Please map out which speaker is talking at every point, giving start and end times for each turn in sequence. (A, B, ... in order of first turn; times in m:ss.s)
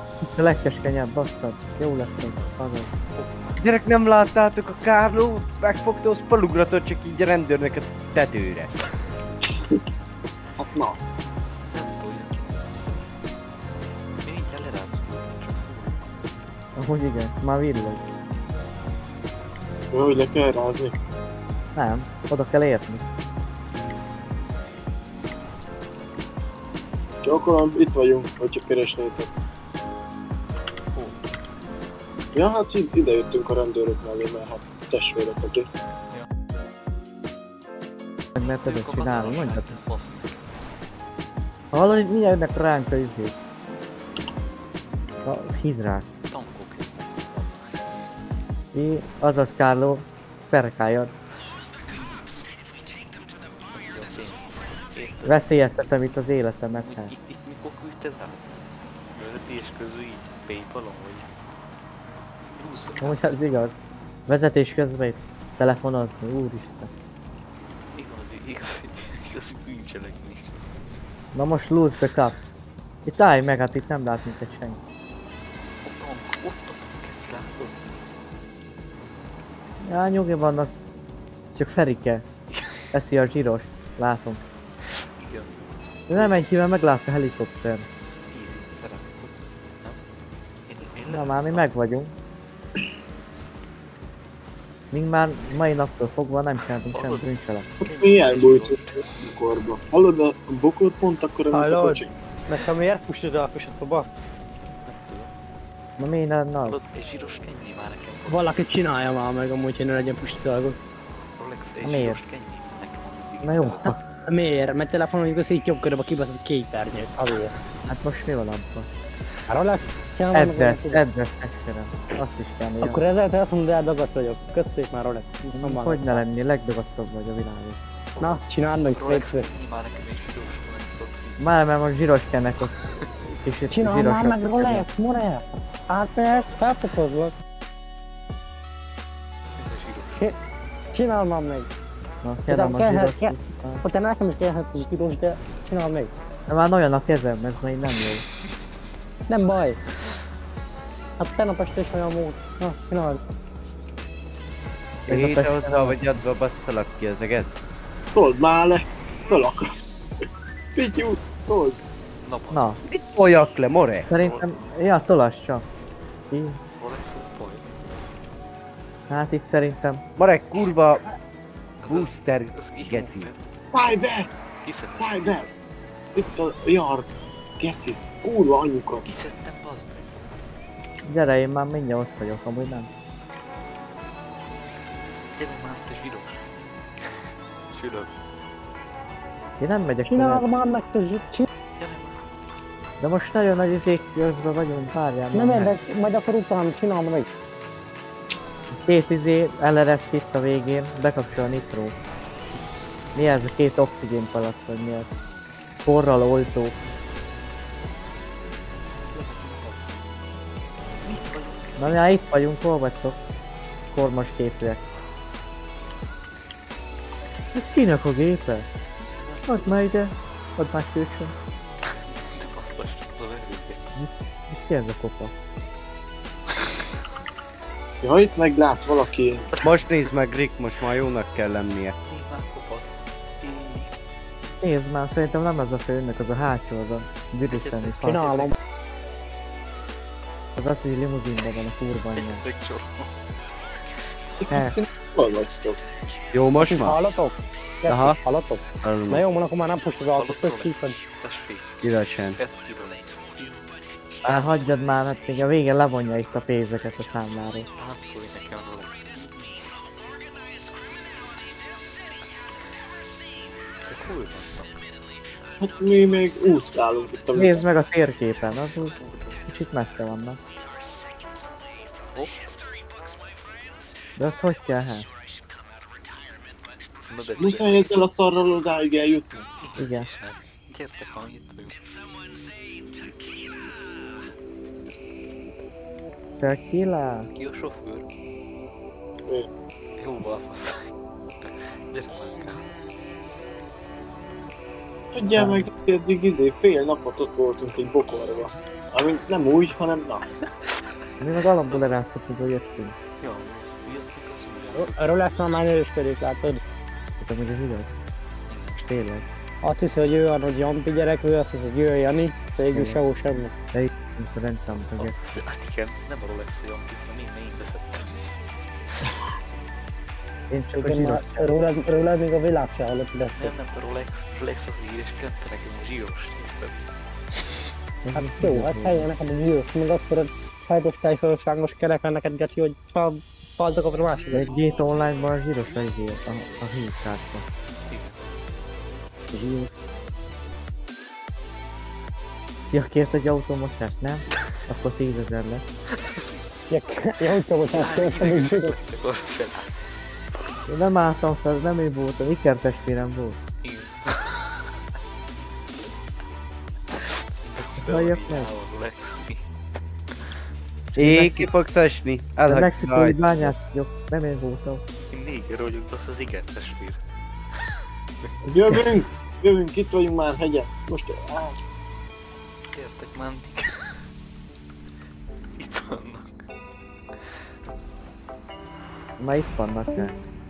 0:00.3-0:02.9 A
0:03.0-0:03.6 B
0:03.6-0:08.7 C
0:10.6-0:11.0 D
0:11.7-0:13.1 B
0:14.1-0:16.1 B
0:16.8-0:18.0 A
0:19.9-0:21.0 D
0:21.8-0:23.0 A
0:27.2-0:29.3 D
0:30.9-0:31.2 B
0:32.3-0:35.7 D
0:38.4-0:39.7 A
0:38.6-0:40.5 B
0:41.7-0:43.3 A
0:45.2-0:46.1 A
0:46.3-0:48.1 B
0:48.7-0:51.1 A
0:53.7-0:55.4 B
0:55.2-0:57.1 A
0:56.8-0:58.6 B
0:59.1-1:01.3 B
1:02.5-1:03.4 B
1:03.0-1:03.8 A
1:04.3-1:06.9 A
1:07.9-1:10.6 B
1:11.3-1:12.5 A
1:13.0-1:14.8 A
1:15.8-1:17.9 B
1:19.8-1:20.8 A
1:21.5-1:22.2 A
1:22.5-1:22.8 B
1:22.9-1:24.4 A
1:24.8-1:26.4 B
1:26.1-1:27.9 A
1:28.3-1:30.0 B
1:30.7-1:31.7 B
1:31.1-1:32.1 A
1:34.9-1:37.6 A
1:36.9-1:39.1 B
1:37.8-1:42.1 D
1:41.5-1:44.1 E
1:44.8-1:45.3 B
1:46.0-1:46.8 A
1:46.6-1:48.7 B
1:48.3-1:50.8 E
1:51.4-1:54.0 B
1:51.8-1:52.2 A
1:53.4-1:54.0 A
1:54.3-1:57.5 E
1:57.9-1:58.9 A
1:59.5-2:01.0 E
2:00.3-2:03.0 A
2:02.8-2:06.2 E
2:05.5-2:07.8 A
2:08.2-2:11.4 B
2:08.2-2:09.5 E
2:11.4-2:12.8 A
2:13.4-2:14.9 A
2:13.7-2:17.4 E
2:19.6-2:20.3 B
2:20.9-2:21.7 E
2:22.2-2:23.8 A
2:22.5-2:26.1 E
2:26.5-2:28.2 A
2:29.3-2:29.8 E
2:31.2-2:33.2 E
2:35.1-2:36.0 A
2:35.1-2:37.5 C
2:38.1-2:39.8 D
2:40.7-2:41.8 D
2:42.2-2:43.1 B
2:42.5-2:42.8 A
2:42.9-2:44.1 C
2:44.1-2:45.6 A
2:44.1-2:44.4 B
2:46.3-2:46.6 A
2:46.8-2:47.8 B
2:49.1-2:50.0 A
2:50.2-2:51.0 C
2:51.8-2:53.5 B
2:51.9-2:53.3 C
2:53.7-2:54.3 D
2:54.6-2:55.4 B
2:54.9-2:55.5 D
2:56.1-2:59.1 D
2:59.0-3:00.3 B
3:01.0-3:02.9 A
3:05.4-3:08.1 B
3:09.6-3:10.4 A
3:10.0-3:11.5 E
3:11.8-3:12.2 B
3:13.0-3:15.7 A
3:15.3-3:17.3 E
3:18.8-3:21.9 A
3:23.1-3:25.1 A
3:25.8-3:26.7 A
3:29.1-3:30.0 B
3:31.0-3:32.0 B
3:31.8-3:33.2 A
3:33.9-3:34.8 A
3:37.5-3:38.7 A
3:39.0-3:39.8 B
3:39.5-3:41.3 A
3:41.8-3:44.0 B
3:44.0-3:45.4 A
3:48.0-3:49.5 D
3:49.6-3:52.0 C
3:52.0-3:53.9 B
3:54.6-3:58.4 A
3:57.5-3:58.5 B
3:58.0-3:58.6 E
4:00.6-4:02.4 A
4:02.2-4:03.2 B
4:04.4-4:05.8 D
4:04.5-4:04.8 A
4:06.3-4:07.0 C
4:06.6-4:11.0 E
4:07.9-4:08.2 C
4:08.8-4:09.2 C
4:10.1-4:11.8 B
4:11.8-4:12.4 C
4:12.4-4:13.7 B
4:14.2-4:17.7 A
4:17.8-4:20.0 B
4:23.8-4:24.8 B
4:25.6-4:27.6 D
4:27.3-4:28.9 A
4:28.9-4:29.4 B
4:29.5-4:30.4 A
4:34.2-4:35.0 A
4:37.1-4:38.0 B
4:37.4-4:39.5 D
4:39.6-4:41.8 B
4:39.8-4:40.1 A
4:46.4-4:47.3 A
4:47.3-4:48.1 B
4:50.0-4:52.7 B
4:55.1-5:00.3 D
4:55.3-4:55.7 A
5:01.2-5:03.0 A
5:03.2-5:05.3 B
5:04.7-5:06.6 E
5:07.2-5:08.0 A
5:08.5-5:08.8 B
5:08.8-5:09.2 A
5:09.6-5:13.5 E
5:12.7-5:13.0 A
5:13.7-5:15.4 A
5:15.0-5:18.4 B
5:20.5-5:21.5 A
5:20.8-5:23.5 E
5:23.4-5:26.9 B
5:28.0-5:29.1 A
5:28.1-5:34.5 E
5:34.3-5:37.4 A
5:37.8-5:38.2 B
5:39.3-5:39.7 E
5:42.6-5:45.6 A
5:45.9-5:46.3 B
5:46.7-5:48.8 E
5:47.7-5:50.4 B
5:50.7-5:53.4 A
5:53.6-5:54.8 B
5:56.9-5:59.4 B
5:57.8-5:58.5 A
6:00.9-6:01.5 A
6:01.0-6:03.2 C
6:02.4-6:04.8 A
6:05.1-6:07.0 B
6:07.5-6:08.3 B
6:08.4-6:08.8 A
6:08.5-6:11.6 D
6:12.7-6:14.1 B
6:15.6-6:16.5 B
6:19.2-6:20.1 A